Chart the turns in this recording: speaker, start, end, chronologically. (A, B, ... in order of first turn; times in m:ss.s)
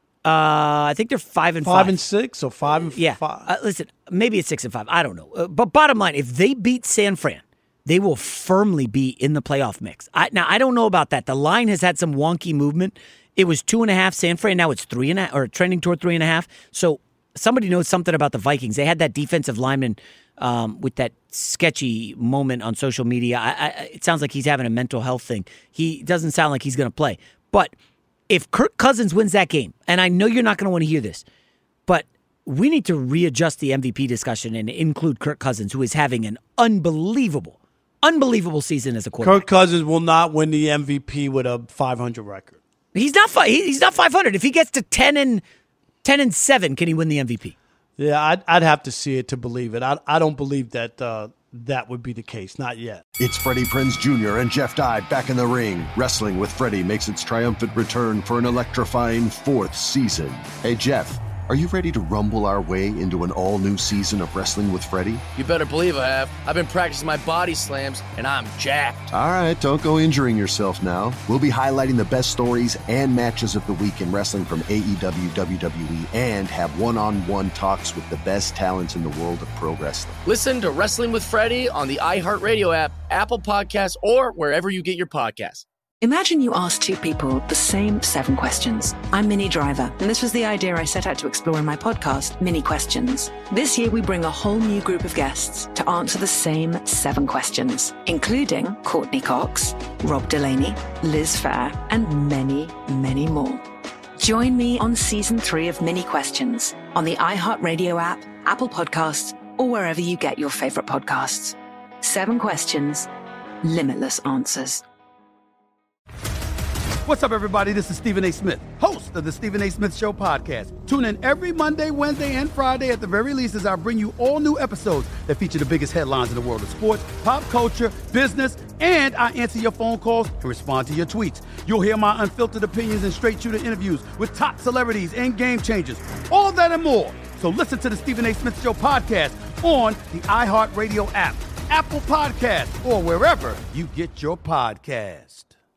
0:00.2-0:02.0 A
0:01.6-0:03.4 B
0:02.9-0:27.7 A
0:28.3-0:31.2 A
0:31.9-0:39.4 A
0:39.2-0:42.6 B
0:42.9-0:45.4 A
0:46.0-0:47.5 A
0:48.0-0:53.0 B
0:53.2-1:05.2 C
1:05.4-1:09.1 D
1:09.1-1:20.2 C
1:20.2-1:25.6 D
1:26.0-1:43.6 E
1:44.2-1:53.1 E
1:53.6-1:54.8 E
1:57.0-2:25.5 F